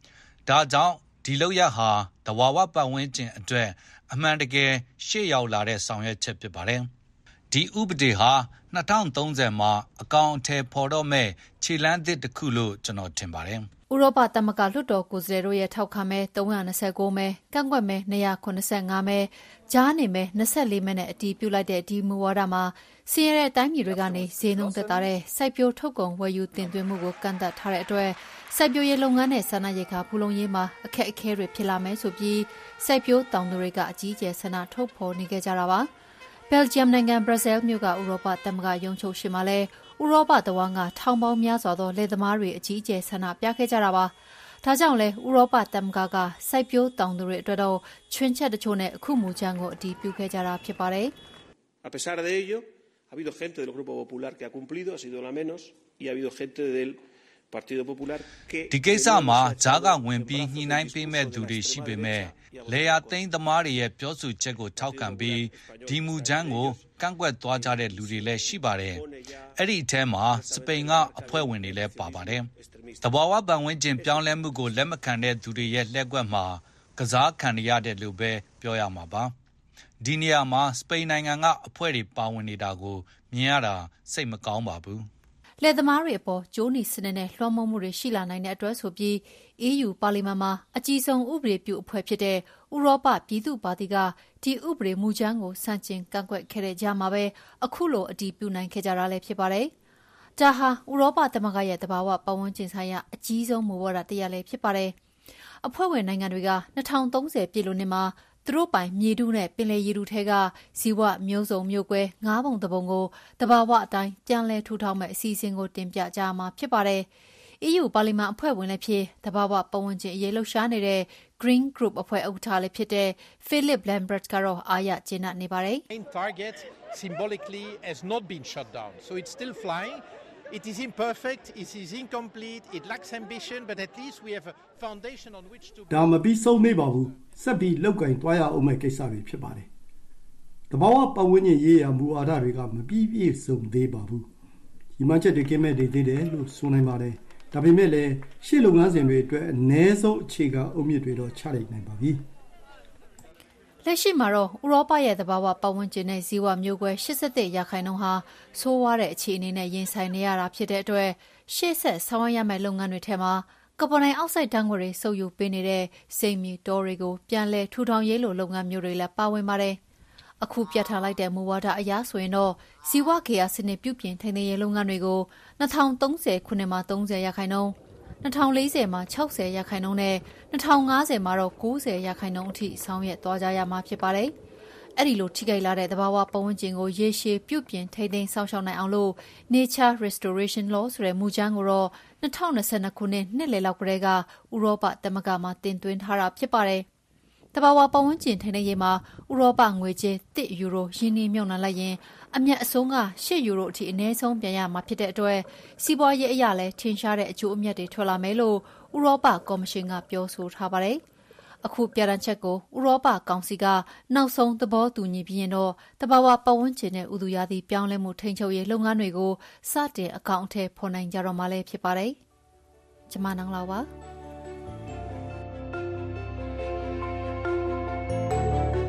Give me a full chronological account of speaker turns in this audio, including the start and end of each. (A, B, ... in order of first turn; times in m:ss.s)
0:00.4-0:06.9 A
0:07.5-0:13.7 A
0:13.9-0:35.9 B
0:23.9-0:24.9 C
0:36.5-0:51.1 B
0:51.8-0:57.0 C
0:57.5-1:03.2 C
0:58.7-1:09.0 A
1:04.7-1:09.5 C
1:09.6-1:12.5 A
1:10.3-1:13.1 C
1:13.0-1:19.3 A
1:14.0-1:14.3 C
1:20.0-1:25.1 A
1:25.6-1:39.7 B
1:40.4-1:44.9 B
1:45.6-1:57.1 B
1:57.6-2:05.8 B
2:05.9-2:16.0 D
2:15.9-2:19.7 E
2:20.7-2:24.3 E
2:25.0-2:32.2 E
2:33.8-2:49.8 B
2:50.4-3:04.3 B
3:05.0-3:16.8 B
3:17.5-3:31.0 B
3:31.6-3:42.2 B
3:43.1-3:43.9 B